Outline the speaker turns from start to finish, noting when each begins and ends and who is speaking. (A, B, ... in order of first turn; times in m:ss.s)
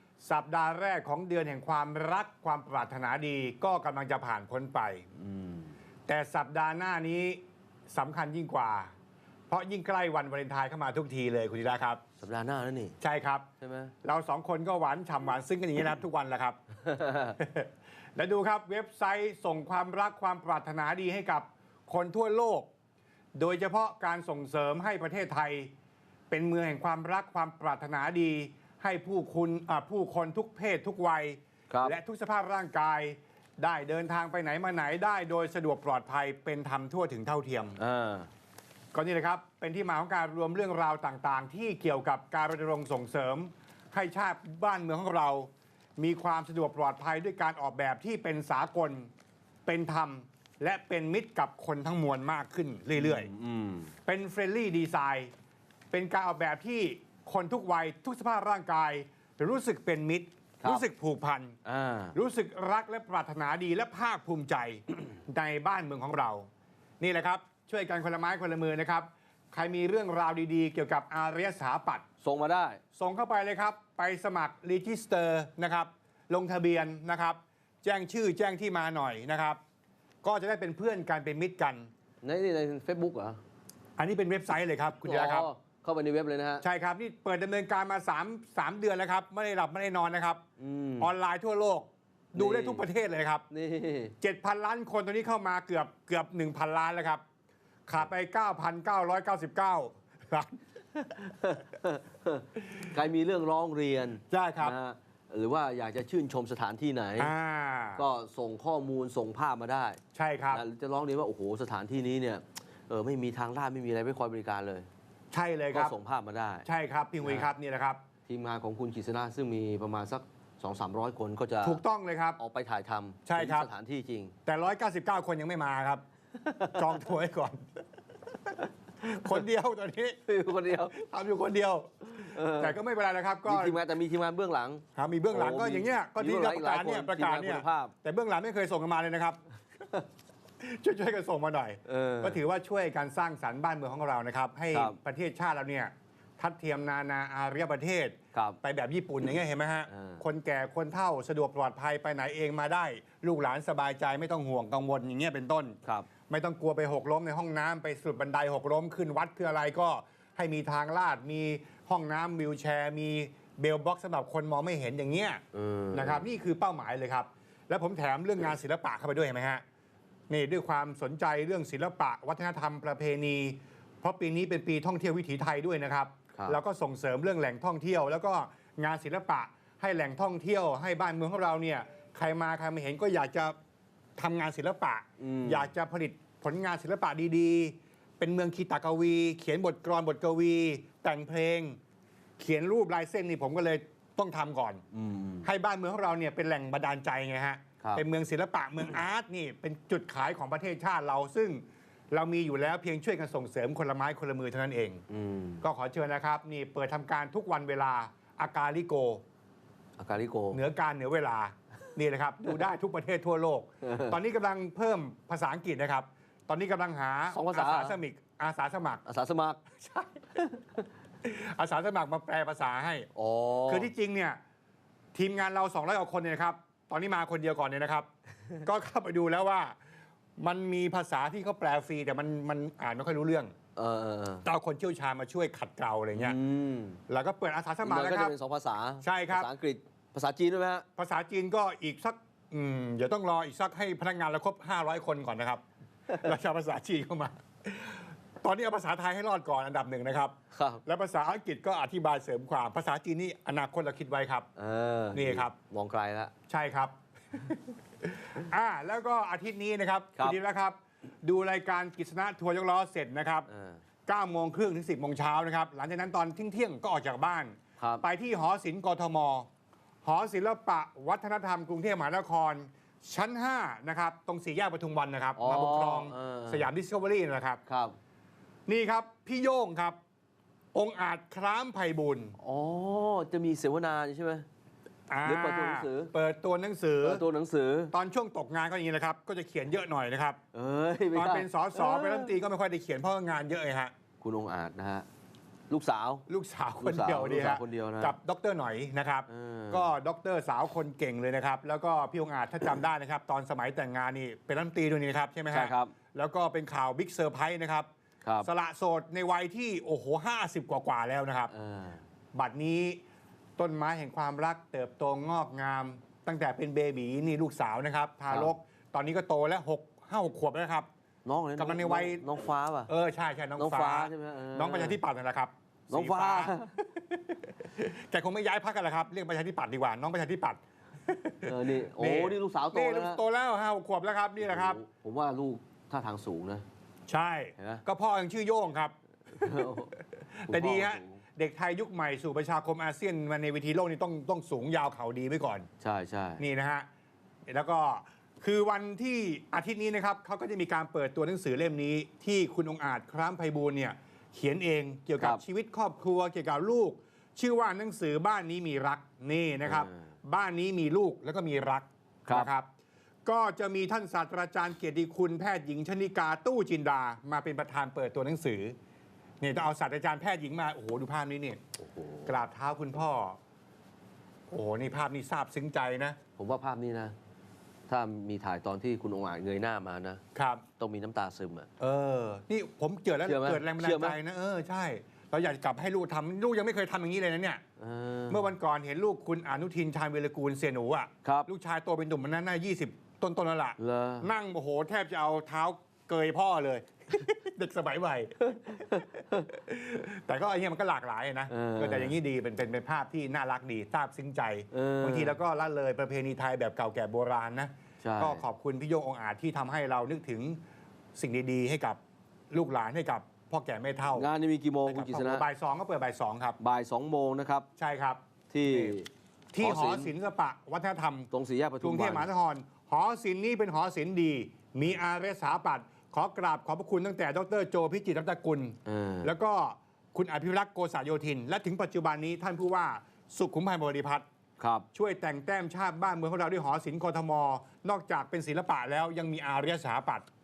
0:00.2-0:05.0 A
0:05.2-0:05.7 B
0:06.1-0:08.9 A
0:09.5-0:12.0 A
0:12.2-0:13.0 B
0:13.0-0:13.5 A
0:13.6-0:13.9 B
0:14.0-0:16.6 A
0:16.8-0:17.3 B
0:17.4-0:22.7 A
0:23.4-0:25.7 A
0:26.3-0:37.8 A
0:31.7-0:32.0 B
0:37.8-0:38.3 B
0:38.9-0:49.1 A
0:49.6-0:53.3 A
0:52.9-0:53.9 B
0:54.0-0:55.3 A
0:55.9-1:01.6 A
1:01.6-1:02.2 B
1:02.1-1:06.5 A
1:07.0-1:12.0 A
1:12.2-1:12.8 B
1:12.9-1:19.6 A
1:20.2-1:21.9 A
1:22.2-1:23.4 B
1:24.0-1:25.5 A
1:25.0-1:26.6 B
1:26.6-1:30.4 A
1:30.6-1:31.1 B
1:31.0-1:33.4 A
1:32.3-1:32.8 B
1:33.5-1:34.1 B
1:34.2-1:37.2 A
1:37.9-1:40.6 A
1:41.1-1:47.3 B
1:44.3-1:44.7 A
1:47.2-1:48.0 A
1:48.0-1:50.0 B
1:50.1-1:50.6 A
1:50.5-1:54.9 B
1:55.3-1:55.9 A
1:55.7-1:56.6 B
1:56.6-1:58.0 A
1:57.2-1:57.5 B
1:58.3-2:01.8 B
2:01.6-2:02.4 A
2:02.4-2:04.3 B
2:03.2-2:03.7 A
2:04.4-2:06.0 A
2:06.4-2:07.0 B
2:06.7-2:07.6 A
2:09.0-2:10.2 A
2:10.2-2:11.0 B
2:10.9-2:13.8 A
2:12.2-2:12.8 B
2:13.4-2:17.9 B
2:15.0-2:19.4 A
2:20.6-2:35.8 A
2:21.8-2:22.4 B
2:24.7-2:25.0 B
2:29.9-2:30.2 B
2:36.3-2:45.4 A
2:45.5-2:46.3 B
2:45.9-2:49.6 A
2:50.3-3:03.6 A
2:56.3-2:56.6 B
3:04.2-3:11.8 A
3:05.2-3:05.7 B
3:12.4-3:14.8 A
3:14.9-3:15.5 B
3:15.4-3:25.0 A
3:25.1-3:25.6 B
3:25.6-3:29.2 A
3:30.0-3:30.6 B
3:30.5-3:39.0 A
3:33.8-3:34.2 B
3:37.3-3:38.0 B
3:39.0-3:39.6 B
3:39.8-3:40.4 A
3:41.2-3:43.1 A
3:43.1-3:43.9 B
3:43.7-3:44.4 A
3:45.1-3:48.1 A
3:48.6-3:49.8 A
3:50.4-3:53.5 A
3:53.8-3:54.4 B
3:54.4-3:56.4 A
3:56.1-3:57.0 B
3:57.1-3:58.3 A
3:57.8-4:00.8 B
3:59.0-3:59.5 A
4:01.0-4:14.5 A
4:10.5-4:10.8 B
4:14.6-4:16.3 B
4:15.1-4:15.5 A
4:16.5-4:23.5 A
4:23.5-4:23.8 B
4:24.1-4:29.5 A
4:27.8-4:28.0 B
4:30.0-4:37.6 A
4:35.4-4:36.7 B
4:37.7-4:37.9 B
4:38.7-4:40.0 A
4:40.7-4:42.4 A
4:42.4-4:44.5 B
4:45.1-4:47.2 A
4:45.2-4:46.1 B
4:47.0-4:47.9 B
4:47.9-4:50.4 A
4:50.5-4:52.3 B
4:51.1-4:53.9 A
4:54.2-4:55.0 B
4:55.7-4:56.2 B
4:56.3-5:07.9 A
4:56.8-4:58.2 B
4:59.3-4:59.9 B
5:05.5-5:05.9 B
5:08.4-5:11.5 A
5:11.5-5:12.0 B
5:12.3-5:13.0 A
5:13.6-5:20.9 A
5:18.3-5:18.5 B
5:21.2-5:22.9 B
5:21.6-5:22.2 A
5:22.9-5:34.8 A
5:23.6-5:25.0 B
5:25.9-5:26.8 B
5:31.4-5:33.2 B
5:34.4-5:36.6 B
5:37.1-5:45.7 A
5:37.6-5:37.8 B
5:39.3-5:39.9 B
5:40.5-5:41.2 B
5:45.8-5:46.4 B
5:46.4-5:46.8 A
5:47.5-6:02.7 A
5:59.6-6:00.0 B
6:03.2-6:08.7 A
6:09.4-6:11.6 A
6:11.8-6:12.4 B
6:12.2-6:13.4 A
6:14.5-6:16.2 A
6:16.4-6:17.1 B
6:17.9-6:20.2 B
6:20.3-6:20.6 A
6:20.8-6:21.7 B
6:21.8-6:27.6 A
6:23.2-6:24.2 B
6:27.8-6:28.5 B
6:28.3-6:50.6 A
6:31.2-6:31.5 B
6:33.8-6:34.3 B
6:38.9-6:39.4 B
6:41.5-6:42.1 B
6:44.7-6:45.4 B
6:48.0-6:48.4 B
6:51.2-6:52.0 A
6:52.5-6:54.3 A
6:54.1-6:55.4 B
6:54.9-6:56.6 A
6:56.6-6:57.7 B
6:57.8-6:59.0 A
6:58.5-7:00.1 B
6:59.5-7:01.3 A
7:01.3-7:02.3 B
7:01.8-7:14.2 A
7:08.8-7:09.3 B
7:14.6-7:14.8 B
7:14.9-7:20.2 A